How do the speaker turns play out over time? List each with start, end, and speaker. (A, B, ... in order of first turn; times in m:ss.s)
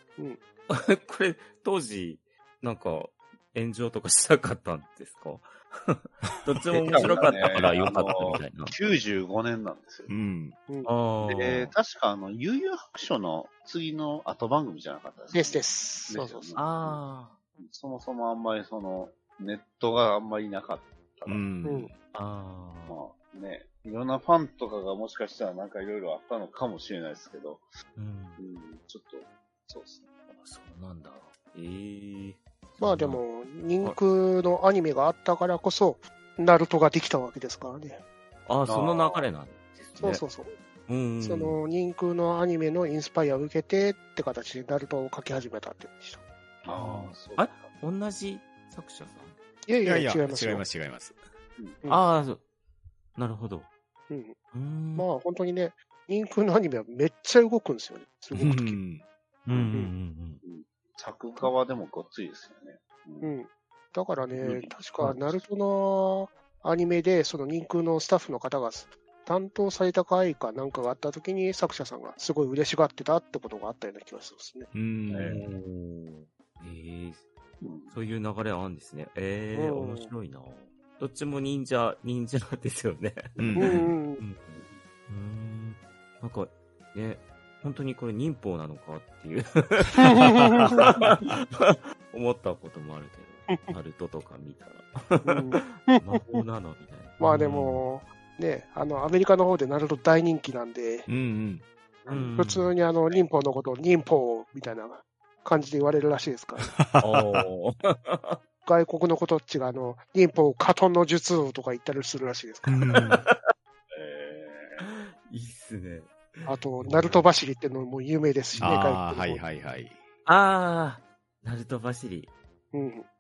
0:00.7-0:08.7 A
0:06.7-0:10.1 B
0:10.1-0:10.6 C
0:10.8-0:11.7 A
0:11.3-0:17.0 B
0:15.3-0:16.6 D
0:16.6-0:17.4 A
0:17.6-0:21.4 B
0:21.3-0:22.0 C
0:21.6-0:21.9 D
0:22.1-0:23.0 A
0:22.9-0:27.7 B
0:28.0-0:28.4 A
0:28.4-0:30.0 B
0:30.3-0:33.2 A
0:32.8-0:38.0 D
0:38.5-0:40.2 A
0:38.7-0:39.3 B
0:40.0-0:40.5 D
0:40.9-0:41.6 A
0:41.2-0:46.2 D
0:46.6-0:47.7 B
0:46.8-0:49.4 A
0:49.7-0:50.6 D
0:49.8-0:51.2 C
0:51.6-0:51.8 B
0:51.9-0:52.4 A
0:53.2-0:53.7 A
0:54.1-0:54.4 D
0:54.5-0:55.1 A
0:55.0-0:58.8 D
0:58.3-0:59.0 C
0:59.5-1:00.4 A
1:00.4-1:03.3 B
1:03.2-1:14.7 D
1:04.4-1:05.4 B
1:14.7-1:15.5 C
1:15.1-1:15.4 B
1:15.2-1:17.2 A
1:17.6-1:18.0 B
1:17.9-1:37.9 A
1:19.5-1:20.1 D
1:23.4-1:23.8 C
1:23.6-1:24.2 D
1:30.0-1:30.7 D
1:35.2-1:36.4 D
1:37.2-1:41.1 D
1:41.1-1:41.6 C
1:42.1-1:42.4 B
1:42.1-1:42.7 A
1:42.4-1:46.7 D
1:46.6-1:47.4 C
1:47.0-1:48.4 A
1:48.6-1:52.8 D
1:52.7-1:53.2 C
1:52.9-1:53.5 A
1:53.9-1:54.8 B
1:54.8-1:57.2 A
1:56.5-1:59.4 D
1:58.6-2:00.0 C
2:00.3-2:02.3 A
2:02.7-2:03.1 D